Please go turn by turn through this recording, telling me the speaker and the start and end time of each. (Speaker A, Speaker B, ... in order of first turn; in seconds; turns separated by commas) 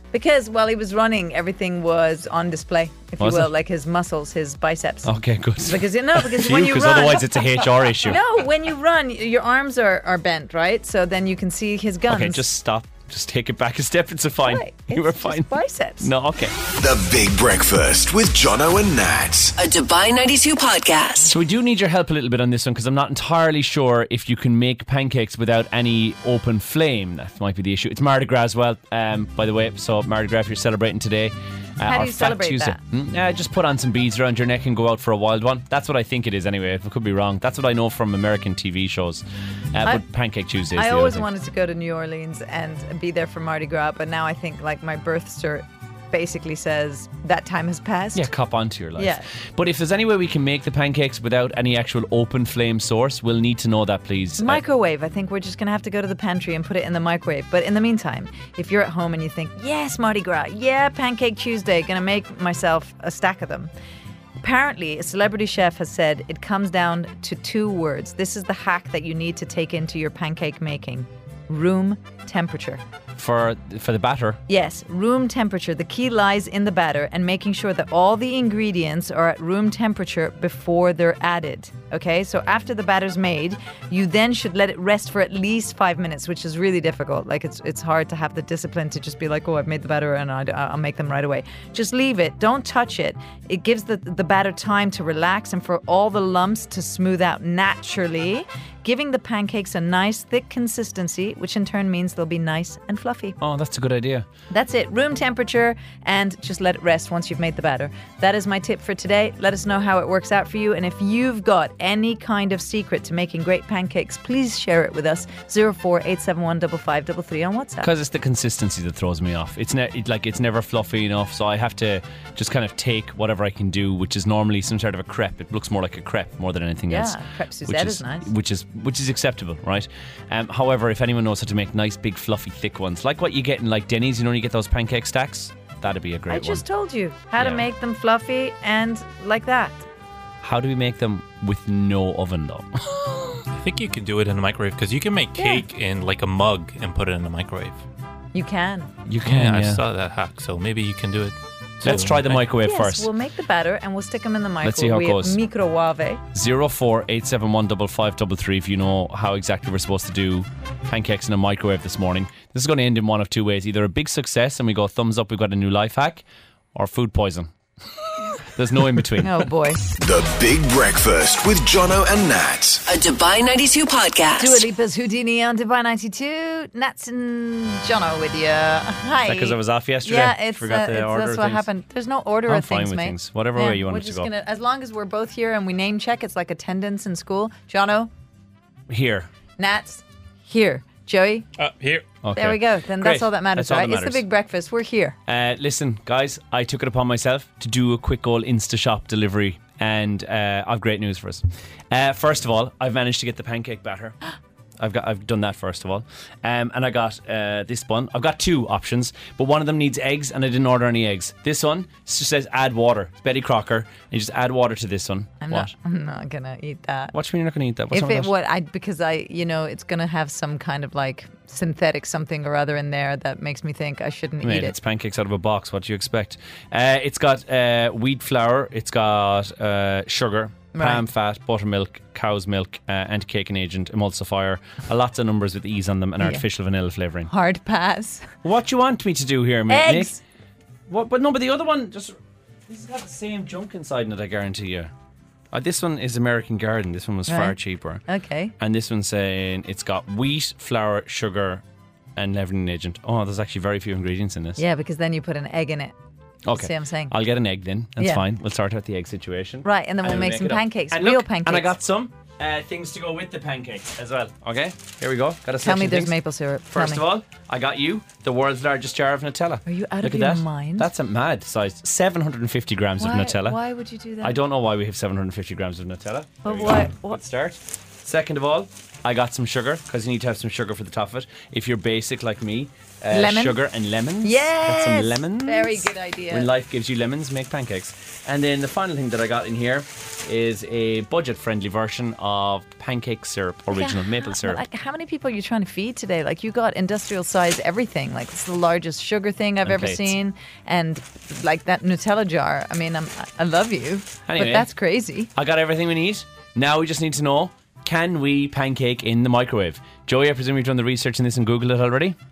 Speaker A: 0.1-7.4, Speaker B: 3.2-3.5, Speaker B: 5.0-8.2, Speaker A: 8.0-12.4, Speaker B: 12.1-16.6, Speaker A: 14.4-16.1, Speaker C: 16.7-19.5, Speaker D: 19.6-21.4, Speaker B: 21.3-41.2, Speaker A: 31.9-32.8, Speaker A: 40.7-48.3, Speaker B: 48.1-54.6, Speaker A: 49.0-49.2, Speaker A: 54.4-63.7, Speaker A: 64.4-72.8, Speaker B: 73.2-74.4, Speaker A: 74.5-103.3, Speaker B: 103.4-104.2, Speaker A: 104.5-117.9, Speaker B: 117.8-136.6, Speaker A: 126.9-128.3, Speaker A: 136.3-139.8, Speaker B: 137.4-137.7, Speaker B: 140.4-143.4, Speaker E: 143.6-147.8, Speaker A: 145.3-145.6, Speaker A: 148.3-148.9, Speaker B: 149.1-149.8, Speaker E: 149.2-152.4, Speaker B: 151.8-153.1, Speaker A: 152.6-156.2, Speaker B: 154.6-155.4, Speaker B: 156.3-167.5, Speaker B: 168.4-169.5, Speaker A: 169.2-169.8, Speaker C: 170.0-172.8, Speaker D: 172.9-174.7, Speaker A: 174.4-188.1, Speaker B: 179.2-181.7, Speaker B: 182.4-184.3, Speaker B: 188.9-189.3, Speaker A: 189.6-191.4, Speaker E: 191.6-192.2, Speaker B: 192.2-194.2, Speaker A: 192.3-195.2, Speaker B: 195.3-204.2, Speaker B: 204.8-215.7, Speaker A: 215.4-217.1, Speaker B: 217.1-218.3, Speaker A: 217.9-224.8, Speaker B: 224.4-237.3, Speaker A: 230.7-231.1, Speaker A: 237.3-238.3, Speaker B: 238.4-240.2, Speaker A: 239.7-240.2, Speaker B: 240.9-244.9, Speaker B: 245.5-248.0, Speaker A: 247.3-248.5, Speaker B: 248.6-251.6, Speaker B: 252.2-254.6, Speaker A: 254.6-255.9, Speaker B: 256.4-266.2, Speaker A: 256.5-257.1, Speaker A: 258.0-258.2, Speaker A: 259.6-261.8, Speaker A: 265.6-267.0, Speaker B: 266.7-273.6, Speaker A: 269.6-270.9, Speaker A: 273.0-274.4, Speaker B: 274.2-294.6, Speaker A: 276.4-277.2, Speaker A: 283.1-283.6, Speaker A: 284.2-286.5, Speaker A: 293.7-305.3, Speaker B: 299.6-300.1, Speaker B: 304.3-304.7, Speaker B: 305.3-312.1